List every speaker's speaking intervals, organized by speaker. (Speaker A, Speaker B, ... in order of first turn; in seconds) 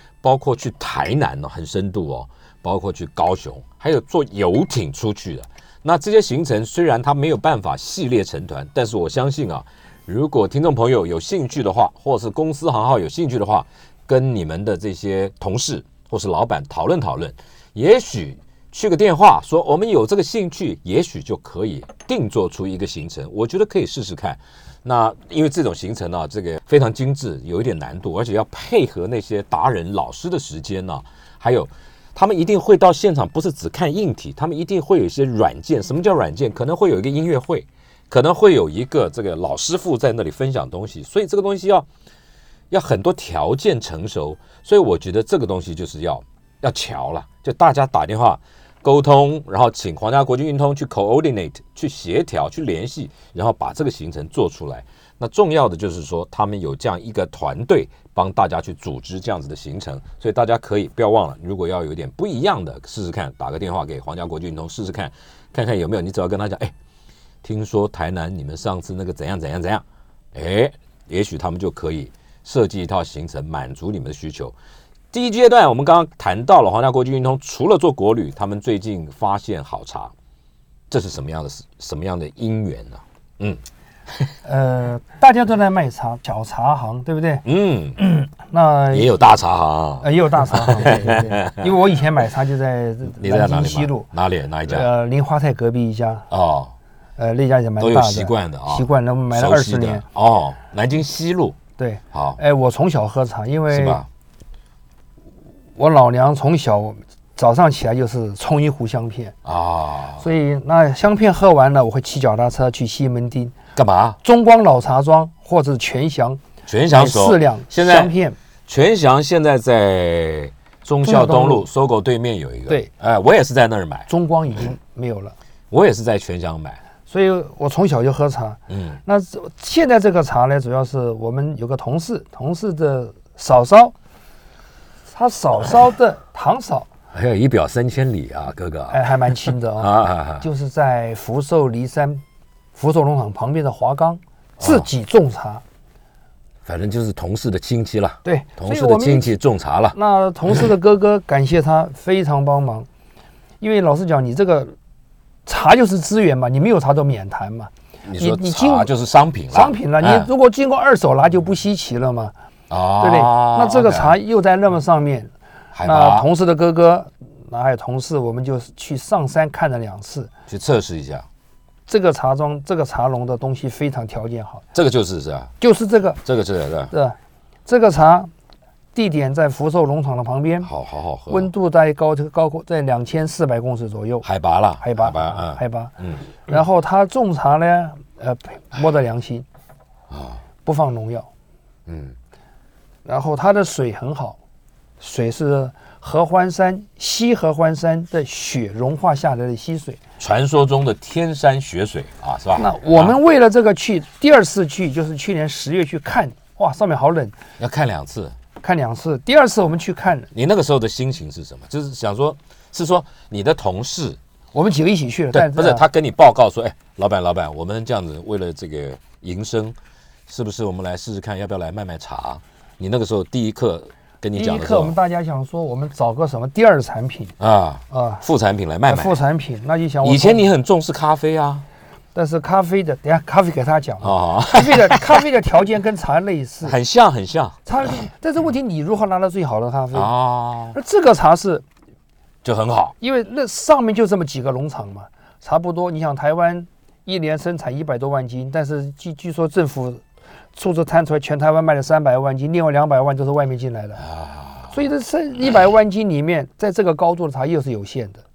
Speaker A: 0.2-41.9, 42.7-66.7, 67.4-74.5, 75.1-80.1, 80.9-84.3, 87.4-88.0, 88.9-91.7, 93.1-94.9, 96.3-96.7, 97.8-101.6, 102.1-102.4, 103.7-104.1, 109.4-110.2, 113.7-114.2, 116.7-118.1, 118.7-124.1, 125.7-126.8, 128.7-129.0, 137.1-139.1, 139.8-140.4, 144.6-144.9, 146.6-150.0, 158.0-160.3, 162.7-164.2, 165.7-166.3, 170.5-171.3, 174.7-175.5, 176.2-176.9, 180.6-181.5, 184.2-186.3, 190.1-190.4, 191.8-192.2, 200.2-203.2, 207.6-208.3, 210.3-214.2, 215.3-224.9, 227.4-229.2, 230.0-231.6, 234.0-235.2, 236.6-237.6, 239.9-240.8, 242.4-242.9, 254.0-254.7
Speaker B: 84.4-87.4, 88.0-89.1, 90.0-94.1, 94.6-96.3, 97.2-100.0, 101.8-104.0, 105.8-109.3, 110.2-113.5, 114.2-116.4, 116.9-118.4, 121.0-121.6, 124.1-125.3, 127.1-133.9, 135.1-136.9, 138.9-142.2, 142.7-145.6, 148.2-149.3, 149.9-152.9, 153.6-154.7, 155.4-158.9, 159.5-162.3, 163.0-165.3, 165.8-170.3, 171.9-174.6, 175.6-176.2, 176.9-178.3, 178.9-180.7, 181.3-184.2, 184.8-185.9, 186.4-189.4, 190.6-191.3, 193.0-194.4, 195.0-200.0, 202.6-207.3, 208.6-210.3, 214.5-215.8, 224.3-227.3, 227.9-228.2, 228.9-230.5, 232.1-236.7, 237.7-240.1, 240.7-241.6, 243.0-250.0, 250.5-254.0, 254.7-258.2